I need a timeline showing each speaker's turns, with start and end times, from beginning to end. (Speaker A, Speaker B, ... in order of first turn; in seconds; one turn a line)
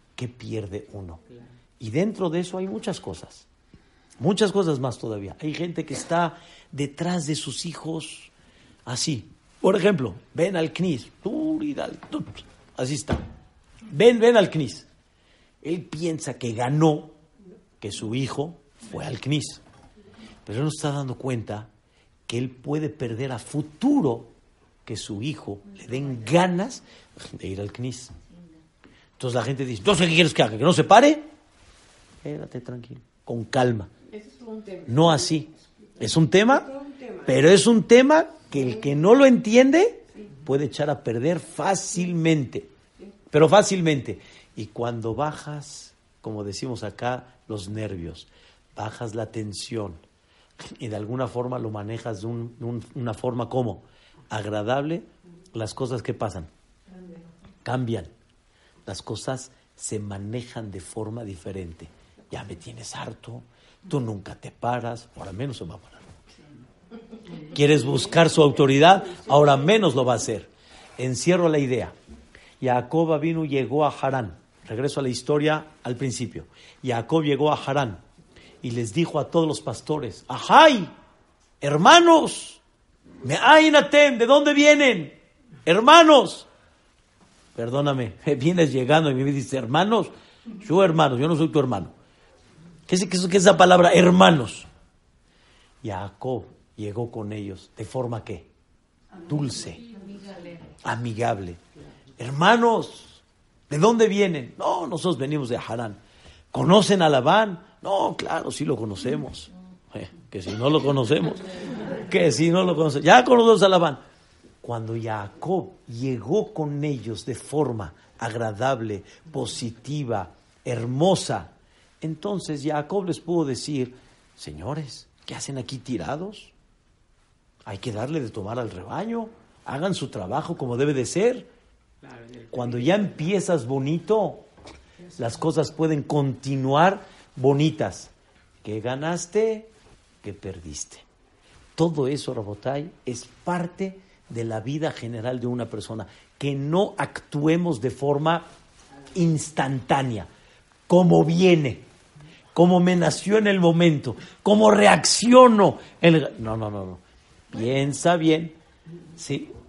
Speaker A: 0.2-1.2
Speaker A: 1.8-3.5
Speaker A: 4.2-8.3
Speaker A: 8.9-13.2
Speaker A: 13.9-14.9
Speaker A: 15.6-17.1
Speaker A: 17.8-19.6
Speaker A: 20.4-21.7
Speaker A: 22.3-24.3
Speaker A: 24.9-28.1
Speaker A: 29.2-31.3
Speaker A: 32.2-33.9
Speaker B: 34.1-35.6
Speaker A: 34.9-36.7
Speaker B: 36.5-37.3
Speaker A: 37.2-42.7
Speaker A: 43.3-50.0
Speaker A: 50.6-56.5
Speaker A: 57.6-58.1
Speaker A: 58.9-66.1
Speaker A: 67.5-72.0
Speaker A: 72.6-78.0
Speaker A: 78.6-80.9
Speaker A: 81.6-82.6
Speaker A: 83.2-85.1
Speaker A: 85.7-86.5
Speaker A: 87.5-91.9
Speaker A: 92.9-94.7
Speaker A: 95.8-98.5
Speaker A: 99.3-99.8
Speaker A: 100.8-101.6
Speaker A: 102.2-106.0
Speaker A: 106.5-114.0
Speaker A: 114.6-126.5
Speaker A: 127.7-131.5
Speaker B: 132.0-133.1
Speaker A: 132.5-134.5
Speaker A: 135.2-138.1
Speaker A: 138.6-139.7
Speaker A: 140.2-141.1
Speaker A: 141.8-148.5
Speaker A: 149.1-150.3
Speaker A: 150.9-151.8
Speaker A: 152.5-158.6
Speaker A: 159.2-159.5